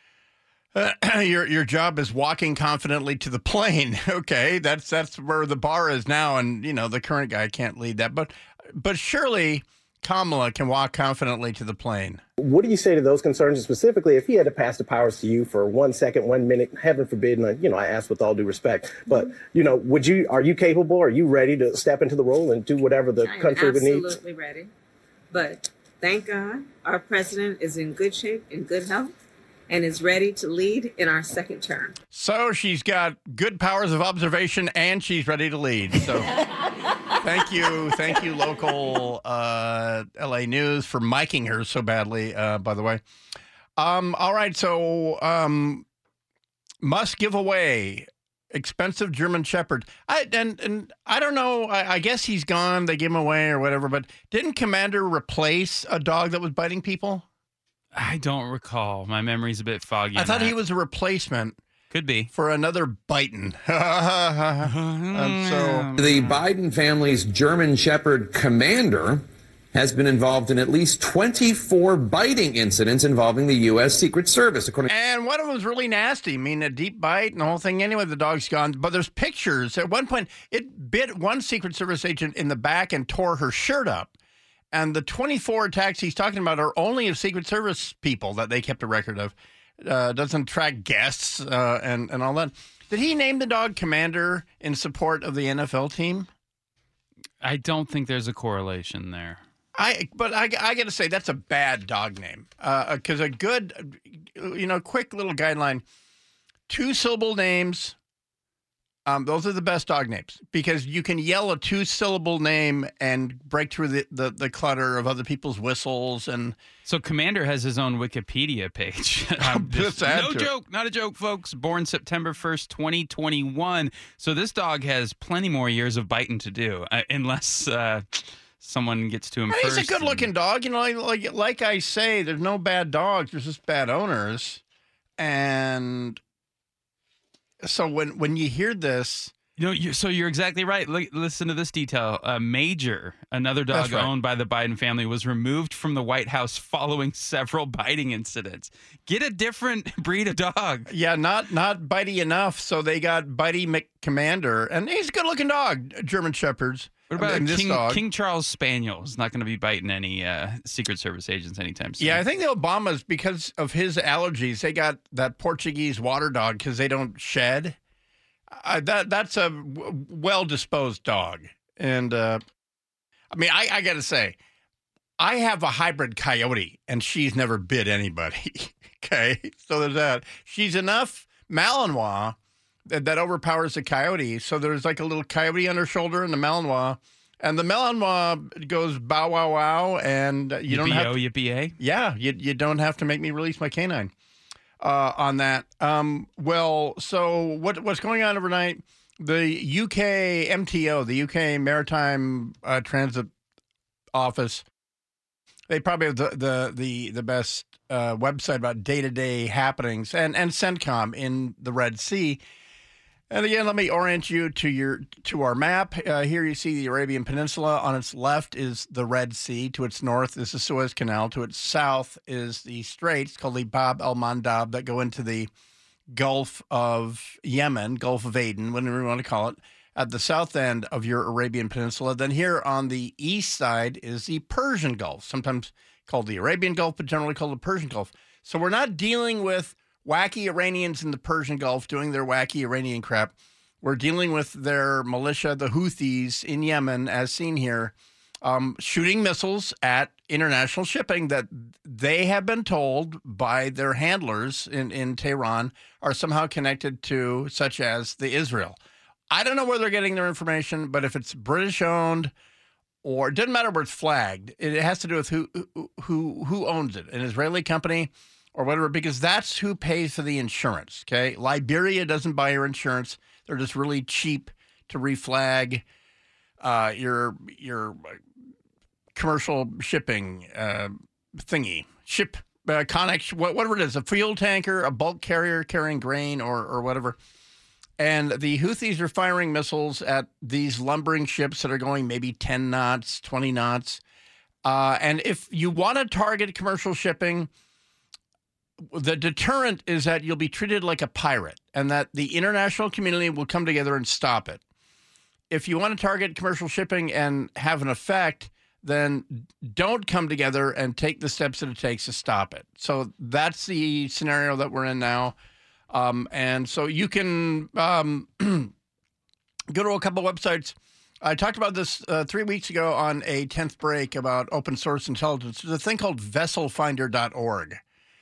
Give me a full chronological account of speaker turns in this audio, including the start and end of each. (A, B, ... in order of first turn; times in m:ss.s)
0:00.7-0:12.2 A
0:12.4-0:24.1 B
0:23.2-0:24.7 C
0:25.3-0:29.1 C
0:29.7-0:32.0 C
0:32.1-0:36.3 A
0:37.2-0:43.0 A
0:43.8-0:45.8 A
0:46.8-0:57.2 A
0:57.9-1:00.6 D
1:00.1-1:01.6 A
1:01.9-1:02.3 D
1:02.3-1:05.9 A
1:04.6-1:06.3 D
1:06.0-1:14.9 E
1:14.9-1:24.1 A
1:24.7-1:36.3 A
1:37.4-1:39.4 D
1:39.8-1:45.8 A
1:46.7-1:48.0 A
1:49.1-1:56.6 A
1:56.9-2:10.3 D
1:59.4-2:00.5 A
2:09.5-2:14.6 A
2:15.2-2:16.2 A
2:17.6-2:19.3 A
2:19.6-2:30.9 D
2:23.7-2:24.1 A
2:30.9-2:38.0 A
2:37.1-2:42.2 D
2:42.0-2:47.8 A
2:48.6-2:52.4 A
2:53.3-2:54.4 A
2:55.2-3:02.4 A
3:02.9-3:11.1 A
3:10.7-3:11.8 D
3:11.8-3:14.1 A
3:14.8-3:23.3 A
3:24.1-3:24.6 A
3:25.7-3:32.4 A
3:33.3-3:45.5 A
3:46.1-4:18.8 A
4:19.3-4:22.3 A
4:23.0-4:35.8 A
4:36.6-4:38.2 A
4:39.1-4:47.2 A
4:48.0-4:54.0 A
4:54.6-4:57.5 A
4:58.9-5:04.6 A
5:05.5-5:15.4 A
5:15.9-5:18.7 A
5:19.7-5:27.8 A